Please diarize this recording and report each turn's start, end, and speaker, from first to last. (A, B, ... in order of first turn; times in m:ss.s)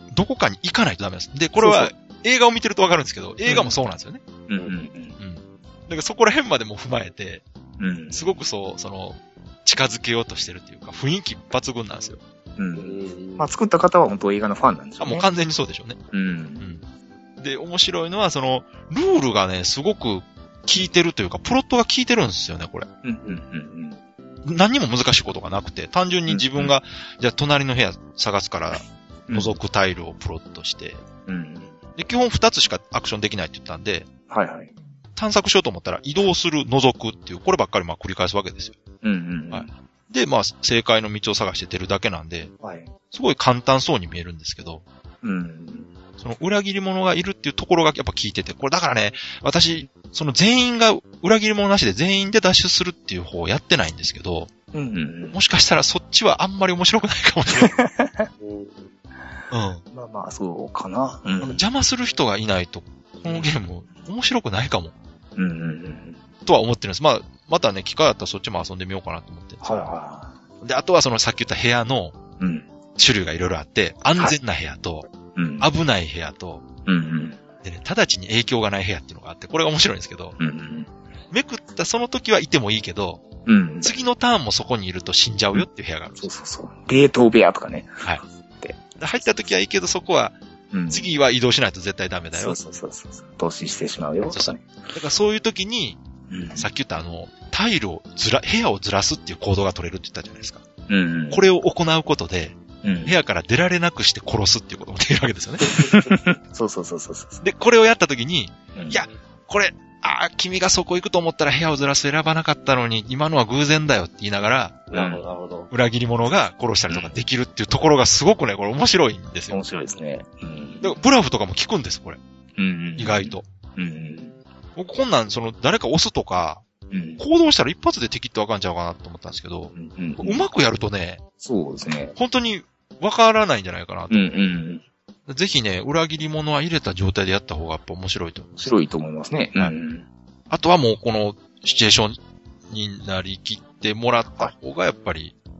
0:00.1-0:04.2 A
0:01.6-0:01.9 B
0:03.4-0:03.7 B
0:04.5-0:05.2 B
0:05.2-0:07.4 A
0:07.8-0:08.3 B
0:08.1-0:12.2 A
0:12.6-0:15.2 B
0:12.8-0:13.5 C
0:15.0-0:16.0 A
0:16.1-0:16.6 B
0:16.6-0:16.8 A
0:17.4-0:22.9 A
0:23.0-0:24.0 B
0:24.4-0:31.0 A
0:26.3-0:26.7 B
0:29.3-0:29.6 B
0:31.2-0:31.8 B
0:32.0-0:34.1 A
0:34.3-0:34.7 B
0:35.2-0:38.8 A
0:39.0-0:39.7 B
0:39.5-0:42.5 A
0:42.6-0:42.9 B
0:43.1-0:44.8 A
0:45.2-0:45.9 B
0:46.2-0:54.5 A
0:54.7-0:55.4 B
0:55.3-0:57.7 A
0:57.7-0:58.3 B
0:58.4-0:58.9 C
0:59.5-0:59.8 A
0:59.9-1:01.6 B
1:01.4-1:04.9 A
1:03.2-1:03.5 B
1:05.4-1:06.2 B
1:06.4-1:09.8 A
1:09.6-1:10.3 B
1:10.6-1:12.2 A
1:12.4-1:12.7 B
1:13.0-1:15.1 A
1:15.3-1:15.7 B
1:15.6-1:16.6 A
1:16.8-1:17.4 B
1:17.6-1:20.4 A
1:20.4-1:20.9 B
1:21.3-1:23.2 A
1:23.4-1:23.9 B
1:23.8-1:26.3 A
1:26.2-1:28.0 B
1:28.6-1:29.3 B
1:29.0-1:30.4 A
1:30.7-1:31.1 B
1:30.9-1:32.6 A
1:32.3-1:34.7 B
1:34.3-1:36.0 A
1:36.3-1:36.7 B
1:36.6-1:40.6 A
1:40.9-1:41.4 B
1:41.3-1:45.7 A
1:42.8-1:43.1 B
1:45.8-1:47.4 B
1:47.4-1:54.8 A
1:48.7-1:49.0 B
1:54.9-1:55.7 C
1:54.9-1:55.2 B
1:55.7-1:59.6 A
1:56.9-1:57.2 B
1:59.5-2:01.0 B
2:00.8-2:02.2 A
2:02.6-2:04.3 B
2:03.0-2:03.4 A
2:04.8-2:06.6 A
2:06.9-2:07.2 B
2:07.2-2:11.2 A
2:09.7-2:10.4 B
2:11.4-2:12.2 B
2:12.2-2:14.3 A
2:14.1-2:14.8 B
2:15.3-2:18.7 A
2:18.6-2:20.1 B
2:20.5-2:25.3 A